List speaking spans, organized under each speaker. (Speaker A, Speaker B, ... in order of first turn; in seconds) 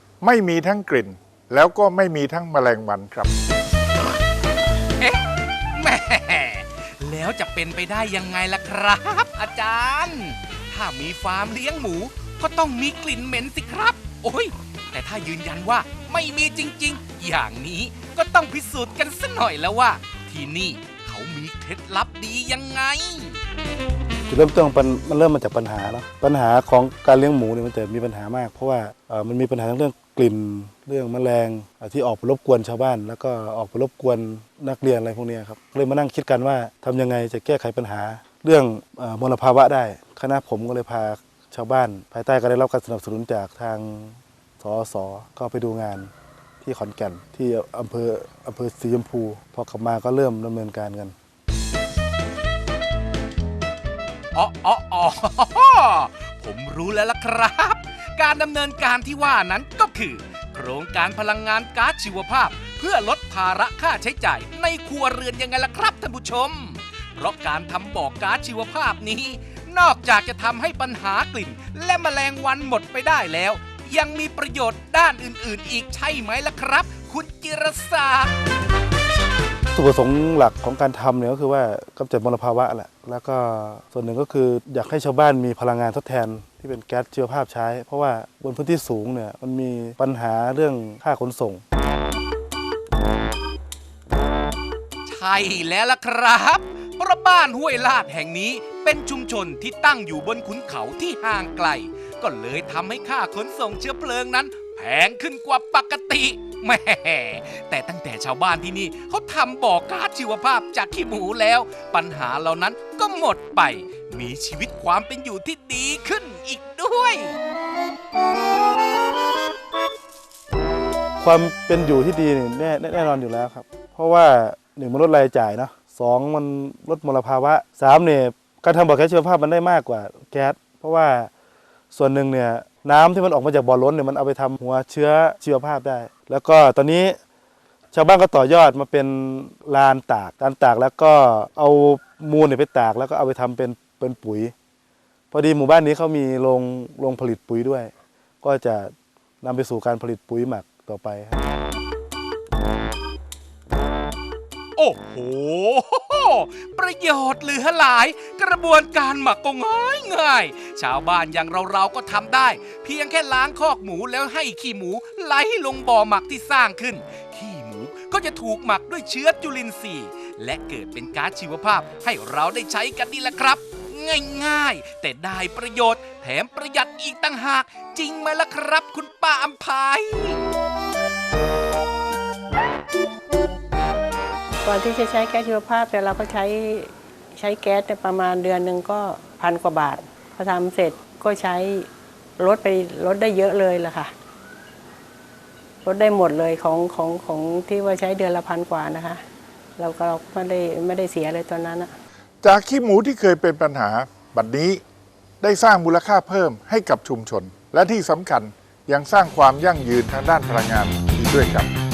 Speaker A: 0.2-3.3, 202.4-204.8, 205.4-211.7
Speaker B: 5.0-23.4, 54.3-78.3, 95.1-117.4, 154.8-180.4
Speaker C: 24.3-51.1, 79.7-91.6, 121.2-131.3, 131.9-137.2, 137.9-144.5, 145.3-151.4
Speaker D: 184.6-194.1, 195.8-199.2, 199.8-201.9